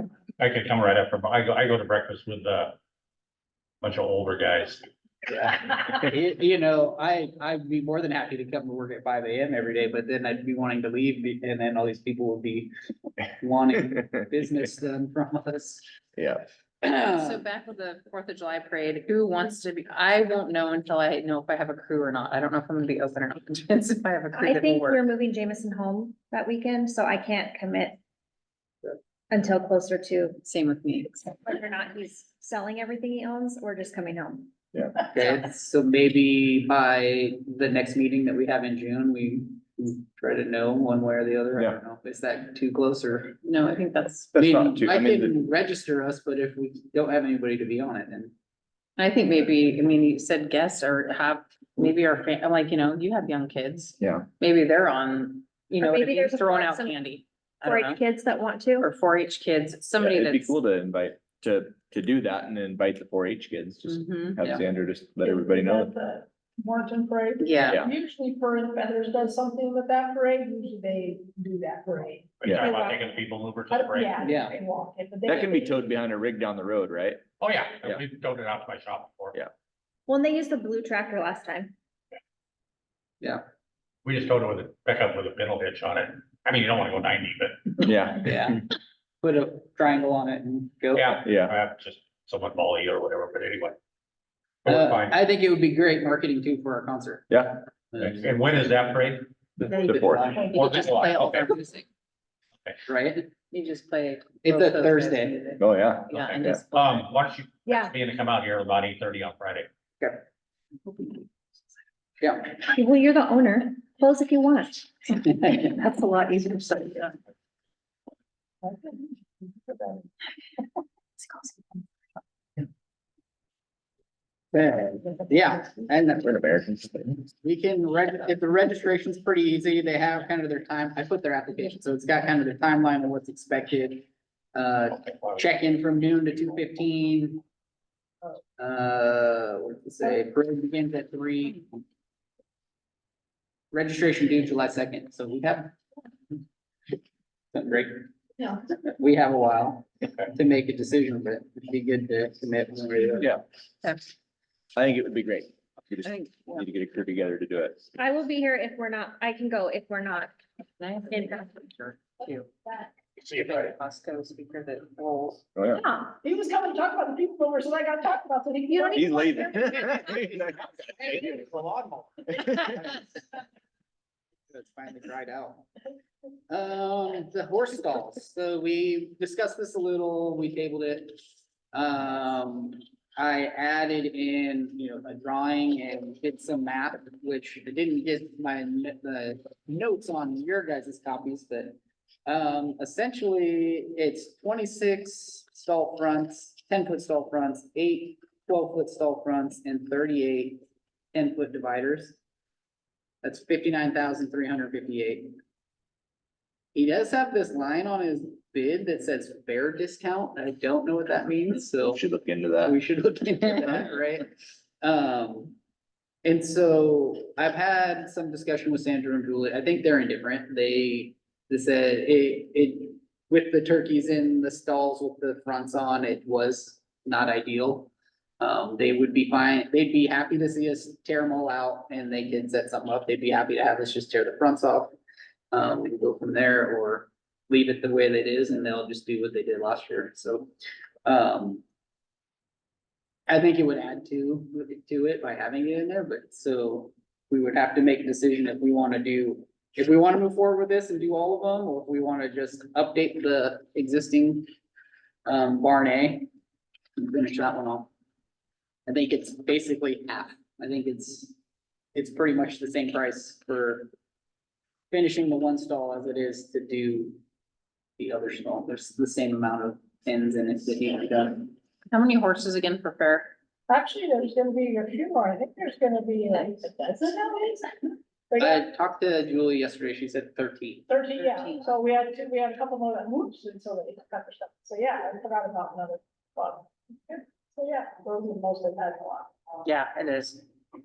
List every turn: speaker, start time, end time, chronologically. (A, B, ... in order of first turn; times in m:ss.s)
0:00.4-0:02.8 A
0:03.8-0:04.8 A
0:05.3-0:12.7 B
0:13.4-0:15.8 B
0:16.2-0:16.4 C
0:16.8-0:17.4 B
0:16.9-0:25.0 D
0:24.3-0:28.0 E
0:29.3-0:30.4 E
0:30.4-0:31.4 D
0:31.4-0:34.5 E
0:35.1-0:43.4 B
0:43.4-0:44.3 D
0:44.3-0:45.4 C
0:44.4-0:48.3 B
0:49.0-0:58.0 D
0:54.0-0:54.3 C
0:55.8-0:57.0 E
0:57.6-0:58.9 E
0:58.8-1:00.6 D
1:00.0-1:05.9 C
1:03.8-1:04.5 D
1:05.2-1:12.3 F
1:07.4-1:07.8 D
1:07.7-1:07.9 C
1:12.4-1:14.3 A
1:12.4-1:12.7 C
1:12.6-1:13.0 E
1:13.7-1:15.8 F
1:14.2-1:14.6 B
1:15.2-1:17.2 C
1:17.4-1:19.4 A
1:20.1-1:21.7 E
1:24.0-1:27.8 A
1:27.8-1:28.5 C
1:28.2-1:28.6 B
1:29.2-1:31.2 B
1:30.9-1:33.8 A
1:31.2-1:31.5 C
1:34.6-1:35.2 A
1:34.6-1:37.4 B
1:37.3-1:37.6 C
1:37.9-1:38.3 B
1:38.0-1:39.3 A
1:39.6-1:41.5 B
1:39.7-1:41.8 D
1:39.8-1:40.4 C
1:40.4-1:41.3 A
1:42.9-1:43.3 B
1:43.5-1:47.1 D
1:44.4-1:45.4 B
1:45.6-1:46.6 C
1:46.1-1:49.7 A
1:47.6-1:47.9 E
1:52.2-1:52.5 B
1:52.6-1:54.8 E
1:55.2-1:57.2 D
1:59.7-2:00.0 F
2:01.2-2:01.8 D
2:04.5-2:06.3 B
2:06.2-2:07.2 C
2:07.4-2:17.4 B
2:15.0-2:15.4 A
2:18.6-2:21.7 B
2:23.7-2:25.8 B
2:27.5-2:28.1 B
2:29.0-2:33.3 B
2:33.8-2:34.1 D
2:34.8-2:37.8 C
2:36.0-2:36.6 D
2:38.0-2:40.3 E
2:40.8-2:42.8 D
2:41.1-2:41.4 E
2:43.3-2:45.4 D
2:43.3-2:43.7 A
2:45.5-2:45.8 C
2:45.7-2:46.2 E
2:46.2-2:49.8 F
2:48.7-2:49.2 E
2:49.0-2:51.4 C
2:50.0-2:50.4 B
2:51.3-2:52.0 A
2:54.5-2:55.6 B
2:56.5-3:01.2 B
3:01.7-3:20.6 B
3:21.1-3:22.2 B
3:23.2-3:25.3 B
3:26.7-3:32.0 B
3:31.9-3:32.8 C
3:32.6-3:34.3 B
3:34.8-3:35.6 B
3:36.2-3:55.0 B
3:55.5-4:00.5 B
4:01.0-4:01.6 B
4:03.3-4:14.5 B
4:15.2-4:16.3 B
4:17.0-4:17.9 B
4:18.8-4:21.4 B
4:21.9-4:23.9 B
4:24.9-4:27.2 B
4:28.0-4:31.5 B
4:31.9-4:33.3 D
4:33.7-4:37.6 F
4:38.3-4:38.6 F
4:38.4-4:40.9 B
4:40.9-4:49.3 F
4:41.1-4:41.7 D
4:49.6-4:50.4 D